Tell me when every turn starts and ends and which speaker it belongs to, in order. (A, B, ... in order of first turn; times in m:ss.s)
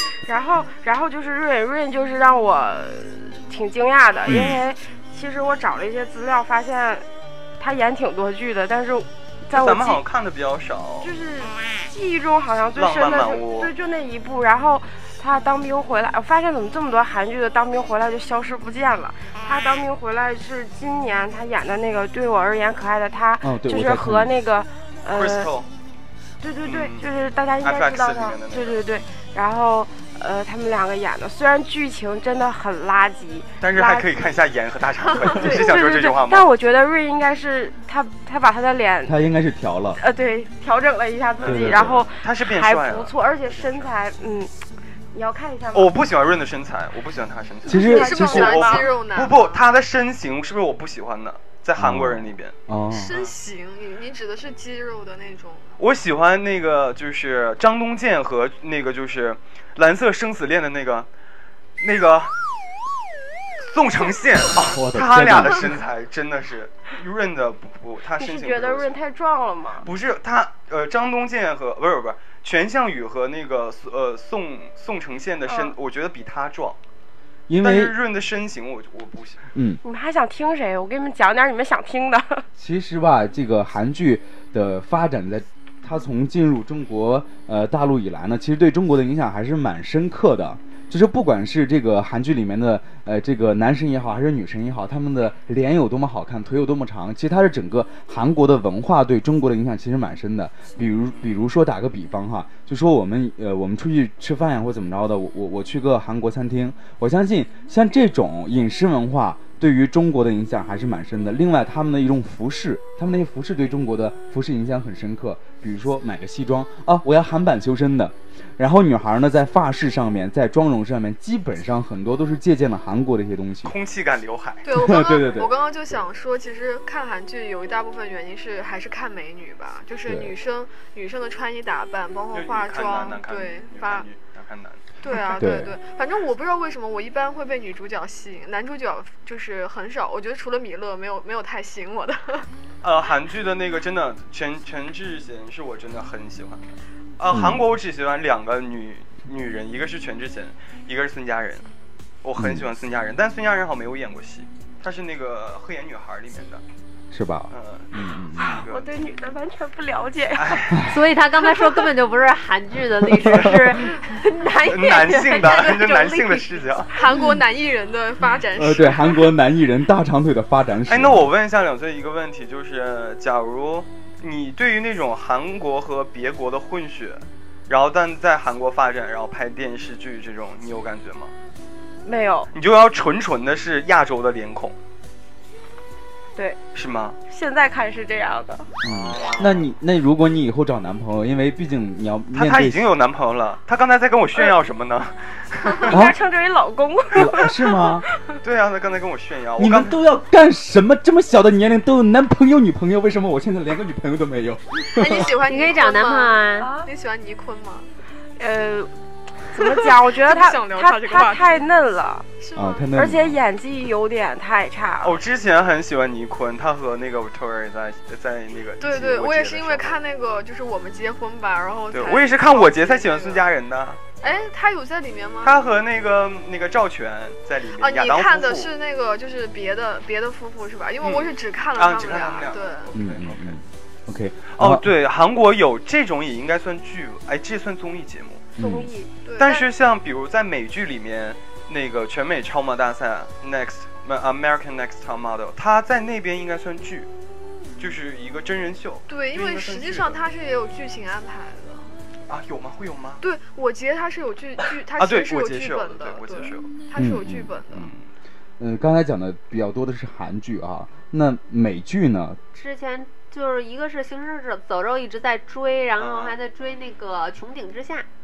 0:00.2-0:07.0 A
0:04.3-0:04.6 B
0:07.6-0:10.0 A
0:09.5-0:11.1 C
0:11.0-0:25.5 A
0:12.7-0:13.7 C
0:23.4-0:24.3 B
0:25.1-0:25.7 C
0:26.4-0:34.3 A
0:26.6-0:27.1 C
0:27.6-0:28.8 C
0:33.6-0:36.5 C
0:35.2-0:39.2 A
0:39.0-0:40.0 B
0:40.0-0:44.5 A
0:41.4-0:43.9 C
0:41.4-0:42.1 B
0:45.1-0:46.0 A
0:45.7-0:52.5 C
0:47.6-0:48.7 B
0:47.6-0:49.0 A
0:47.8-0:49.6 D
0:51.8-0:53.1 B
0:52.9-0:55.7 D
0:53.1-0:53.3 C
0:55.8-1:01.1 C
1:01.8-1:02.3 C
1:03.6-1:09.0 C
1:04.6-1:05.8 B
1:08.2-1:09.9 A
1:09.8-1:16.8 C
1:15.5-1:15.8 A
1:17.5-1:17.9 B
1:17.6-1:19.4 C
1:19.5-1:19.8 B
1:19.8-1:22.4 A
1:22.6-2:03.7 B
2:03.6-2:04.6 C
2:04.6-2:14.0 D
2:04.7-2:05.5 B
2:10.0-2:10.3 B
2:12.3-2:14.8 C
2:15.0-2:22.5 D
2:15.4-2:15.7 B
2:22.8-2:31.7 C
2:27.3-2:27.6 B
2:32.2-2:36.6 C
2:32.4-2:32.7 B
2:37.1-2:38.6 B
2:37.5-2:38.9 C
2:38.4-2:40.7 A
2:40.3-2:40.8 C
2:40.7-2:41.0 B
2:40.8-2:46.6 E
2:43.0-2:43.8 B
2:44.6-2:47.0 C
2:45.4-2:45.7 D
2:46.9-2:49.3 D
2:48.5-2:51.3 B
2:50.8-3:01.3 C
3:02.0-3:02.5 A
3:02.5-3:04.7 C
3:06.4-3:06.6 A
3:06.7-3:07.2 C
3:07.3-3:08.7 A
3:08.8-3:09.7 C
3:08.8-3:12.8 B
3:12.3-3:16.1 C
3:15.8-3:18.4 A
3:15.9-3:16.2 B
3:17.1-3:18.0 B
3:18.4-3:20.0 C
3:19.6-3:25.3 B
3:24.9-3:27.9 D
3:25.4-3:26.7 E
3:26.6-3:26.9 A
3:28.4-3:32.3 A
3:29.6-3:31.6 D
3:32.4-3:32.9 D
3:32.5-3:33.4 B
3:32.9-3:35.2 A
3:35.0-3:40.0 C
3:38.8-3:43.5 D
3:41.9-3:44.0 C
3:44.2-3:45.6 D
3:45.4-3:48.7 C
3:47.8-3:52.9 D
3:51.0-3:53.6 C
3:52.9-3:54.8 B
3:54.5-3:58.5 C
3:58.6-3:58.9 B
3:58.6-3:59.1 A
3:59.2-3:59.7 D
3:59.4-4:07.1 C
4:07.8-4:10.2 C
4:09.1-4:11.9 D
4:12.3-4:13.2 C
4:13.2-4:17.9 D
4:14.9-4:16.8 C
4:17.0-4:17.5 B
4:17.7-4:18.1 C
4:18.6-4:22.4 B
4:22.5-4:28.0 E
4:26.0-4:26.4 C